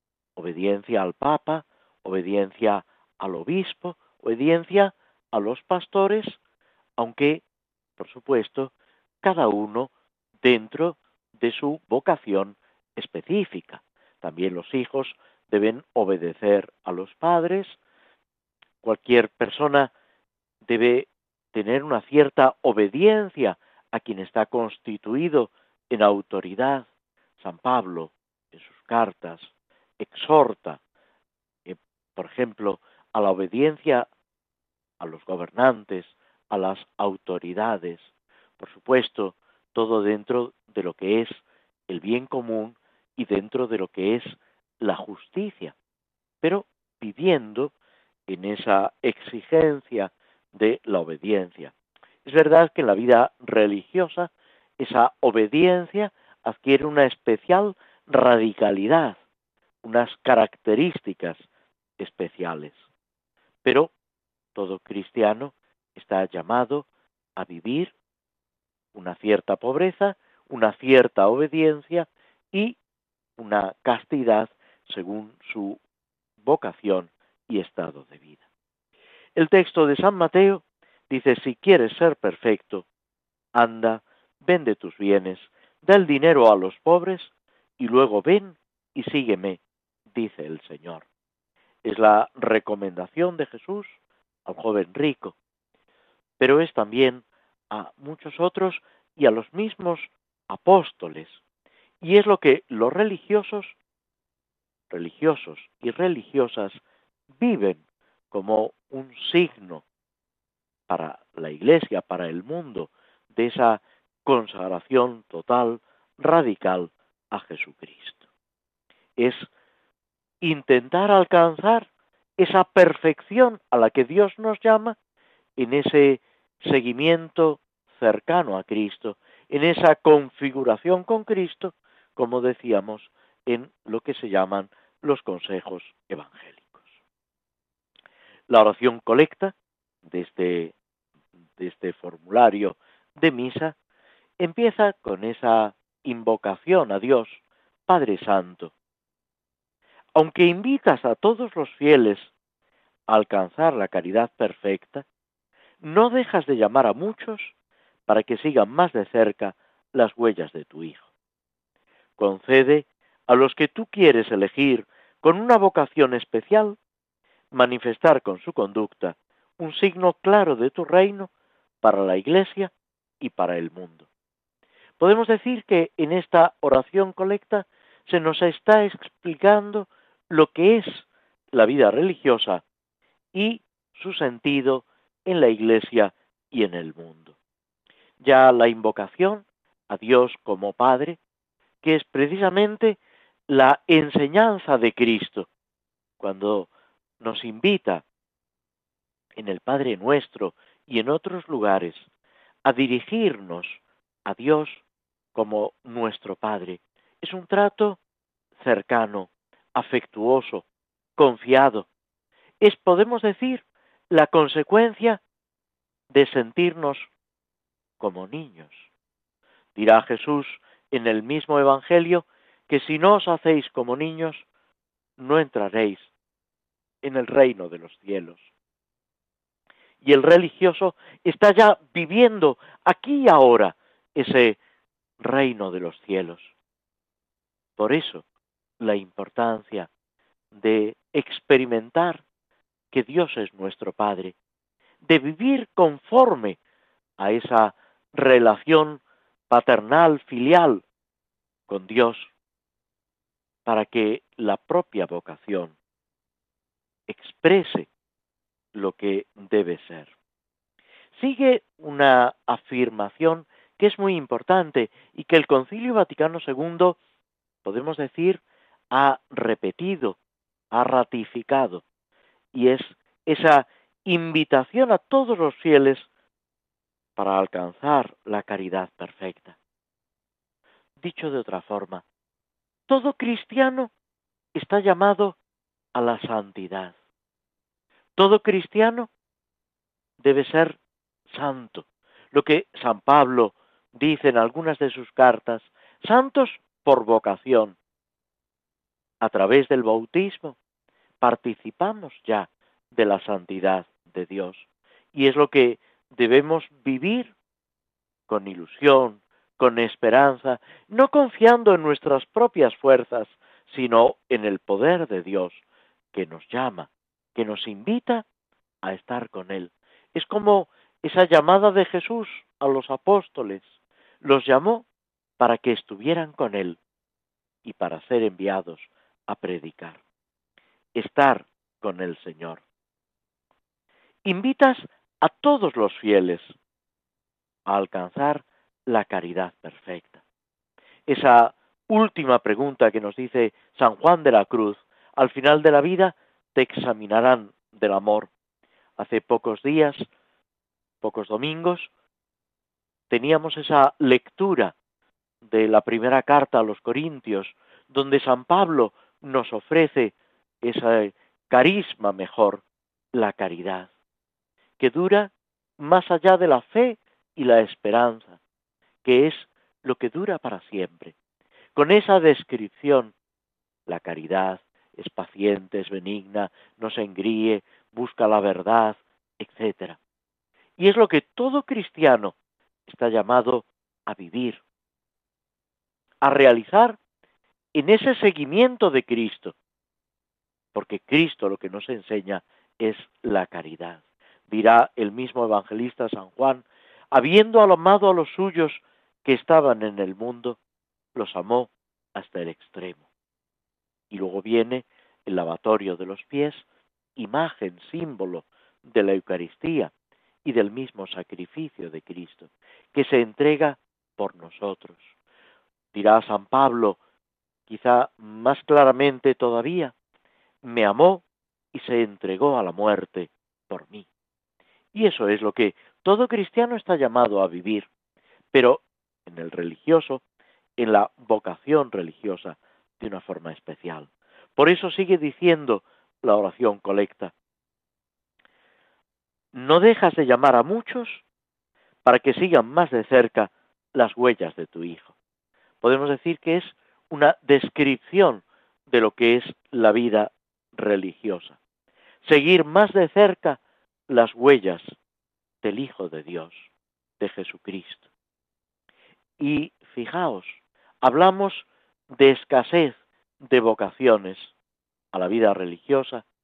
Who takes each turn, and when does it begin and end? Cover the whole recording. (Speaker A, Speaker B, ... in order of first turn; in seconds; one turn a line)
Speaker A: 0.3-6.4
Speaker A: 7.0-7.4
Speaker A: 8.0-9.9
Speaker A: 10.4-17.8
Speaker A: 18.8-19.9
Speaker A: 20.6-26.9
Speaker A: 27.4-30.8
Speaker A: 31.6-34.1
Speaker A: 35.0-38.1
Speaker A: 38.6-45.7
Speaker A: 46.4-47.7
Speaker A: 48.3-51.7
Speaker A: 52.2-59.2
Speaker A: 59.8-61.5
Speaker A: 62.0-62.8
Speaker A: 63.6-63.9
Speaker A: 64.5-67.9
Speaker A: 68.9-72.8
Speaker A: 73.4-75.8
Speaker A: 76.4-78.4
Speaker A: 79.3-82.8
Speaker A: 83.5-89.6
Speaker A: 90.1-91.0
Speaker A: 91.8-95.3
Speaker A: 96.4-101.4
Speaker A: 102.0-103.8
Speaker A: 104.9-106.8
Speaker A: 107.4-107.8
Speaker A: 108.3-109.8
Speaker A: 110.9-118.2
Speaker A: 119.2-119.5
Speaker A: 120.4-125.0
Speaker A: 125.6-136.9
Speaker A: 138.5-139.5
Speaker A: 140.1-140.7
Speaker A: 141.6-143.7
Speaker A: 144.4-148.7
Speaker A: 150.1-152.3
Speaker A: 153.1-155.0
Speaker A: 155.8-157.5
Speaker A: 158.1-161.1
Speaker A: 162.2-166.8
Speaker A: 167.5-171.3
Speaker A: 171.8-174.1
Speaker A: 175.0-182.6
Speaker A: 183.3-187.3
Speaker A: 188.2-191.2
Speaker A: 191.8-195.5
Speaker A: 196.2-196.7
Speaker A: 197.2-198.0
Speaker A: 199.4-202.1
Speaker A: 202.6-204.8
Speaker A: 205.3-208.0
Speaker A: 208.6-210.6
Speaker A: 211.2-211.9
Speaker A: 212.6-215.2
Speaker A: 216.1-217.1
Speaker A: 218.0-218.8
Speaker A: 219.8-224.4
Speaker A: 225.2-226.1
Speaker A: 227.0-228.5
Speaker A: 230.0-234.6
Speaker A: 235.2-236.5
Speaker A: 237.8-238.2
Speaker A: 238.8-239.9
Speaker A: 240.5-242.2
Speaker A: 242.9-244.3
Speaker A: 245.0-246.6
Speaker A: 247.2-250.8
Speaker A: 251.7-252.3
Speaker A: 253.7-255.8
Speaker A: 257.1-257.9
Speaker A: 258.7-260.1
Speaker A: 261.1-267.0
Speaker A: 267.6-270.2
Speaker A: 270.7-271.8
Speaker A: 272.5-276.1
Speaker A: 277.1-279.6
Speaker A: 281.0-282.0
Speaker A: 282.9-283.9
Speaker A: 284.5-285.4
Speaker A: 285.9-286.9
Speaker A: 288.2-289.1
Speaker A: 290.2-290.8
Speaker A: 291.3-297.8
Speaker A: 299.2-300.6
Speaker A: 301.2-307.3
Speaker A: 308.3-315.6
Speaker A: 316.1-318.2
Speaker A: 318.8-323.7
Speaker A: 324.2-324.9
Speaker A: 325.4-326.8
Speaker A: 327.6-330.0
Speaker A: 330.9-332.6
Speaker A: 334.2-336.5
Speaker A: 337.7-340.2
Speaker A: 341.1-348.3
Speaker A: 349.0-350.1
Speaker A: 351.0-351.9
Speaker A: 353.1-354.7
Speaker A: 355.4-362.6
Speaker A: 363.1-363.9
Speaker A: 364.8-368.4
Speaker A: 369.0-371.1
Speaker A: 371.7-373.1
Speaker A: 373.9-380.0
Speaker A: 380.8-382.3
Speaker A: 382.9-384.6
Speaker A: 386.2-387.0
Speaker A: 387.7-389.5
Speaker A: 390.7-400.6
Speaker A: 401.1-403.1
Speaker A: 404.1-406.6
Speaker A: 407.1-409.9
Speaker A: 410.4-415.1
Speaker A: 415.9-417.0
Speaker A: 417.7-419.9
Speaker A: 420.6-424.1
Speaker A: 424.9-427.9
Speaker A: 428.5-430.2
Speaker A: 430.8-437.3
Speaker A: 439.5-441.2
Speaker A: 442.0-445.1
Speaker A: 445.8-451.6
Speaker A: 452.2-454.9
Speaker A: 455.6-456.7
Speaker A: 457.2-458.1
Speaker A: 459.4-464.5
Speaker A: 465.1-466.2